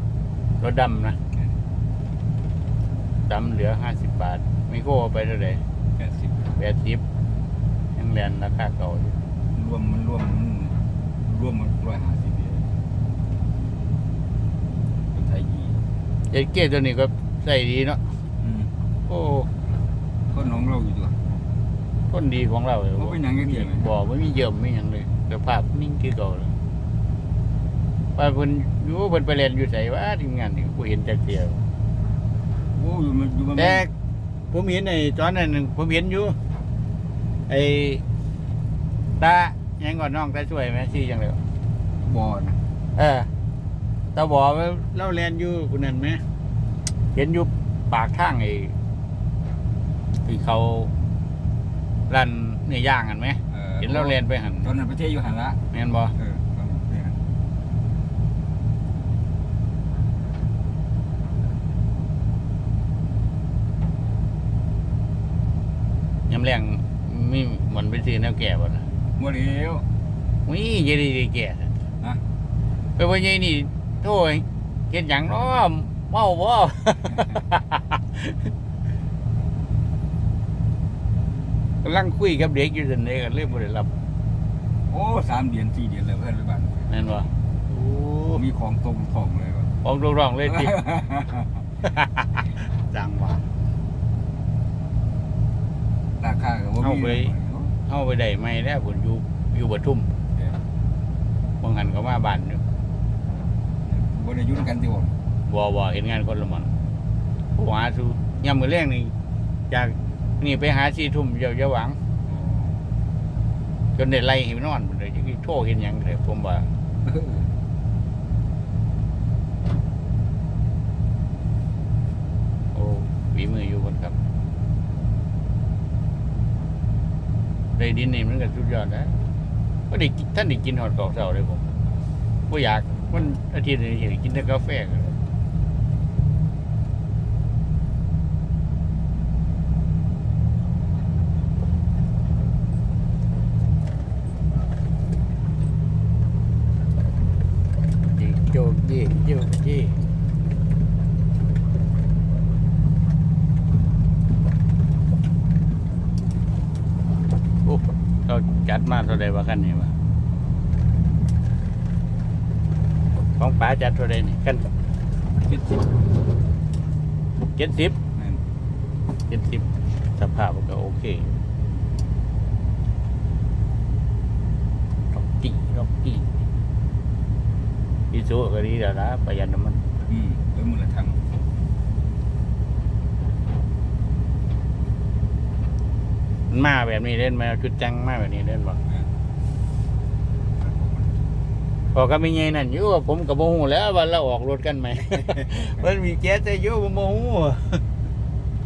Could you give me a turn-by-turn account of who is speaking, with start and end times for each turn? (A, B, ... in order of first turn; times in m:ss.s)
0:00.6-0:01.2 A
0:03.2-0:05.6 A
0:06.0-0:06.5 B
0:06.6-0:07.0 A
0:08.0-0:09.2 A
0:09.5-0:12.7 B
0:15.1-0:15.8 B
0:16.3-0:18.0 A
0:18.4-0:18.7 B
0:19.1-0:19.5 A
0:20.3-0:21.2 B
0:22.1-0:26.5 A
0:23.0-0:23.8 B
0:28.2-0:31.6 A
0:32.7-0:33.8 B
0:33.6-0:33.9 A
0:34.5-0:36.4 A
0:37.5-0:38.0 A
0:39.2-0:41.4 A
0:42.0-0:42.6 B
0:42.9-0:43.3 A
0:44.1-0:46.2 A
0:47.1-0:48.8 A
0:50.2-0:50.9 A
0:52.1-0:54.7 A
0:53.5-0:55.6 B
0:55.7-0:56.1 A
0:56.1-0:57.2 B
1:06.3-1:08.8 A
1:09.2-1:09.8 B
1:10.4-1:11.7 A
1:13.0-1:18.5 A
1:21.8-1:23.9 A
1:24.9-1:26.9 B
1:26.9-1:28.4 A
1:28.3-1:29.7 B
1:29.8-1:30.8 A
1:30.4-1:31.6 B
1:31.8-1:33.4 A
1:36.2-1:37.7 B
1:36.8-1:37.3 A
1:37.8-1:40.1 A
1:41.6-1:42.6 A
1:43.8-1:45.2 B
1:45.5-1:46.7 A
1:47.5-1:49.1 A
1:49.7-1:52.0 A
1:52.2-1:52.8 B
1:53.9-1:56.7 A
1:57.0-1:57.5 B
2:02.7-2:04.2 A
2:07.8-2:09.2 A
2:09.9-2:11.7 A
2:12.5-2:15.1 A
2:28.1-2:30.0 A
2:37.6-2:39.9 A
2:43.4-2:44.7 A
2:45.4-2:46.0 B
2:47.6-2:48.0 A
2:48.2-2:48.4 B
2:49.3-2:51.4 A
2:55.1-2:56.3 A
2:58.1-2:59.8 A
3:00.1-3:01.2 B
3:06.5-3:08.8 A
3:10.6-3:11.2 B
3:11.9-3:17.8 A
3:15.3-3:15.7 B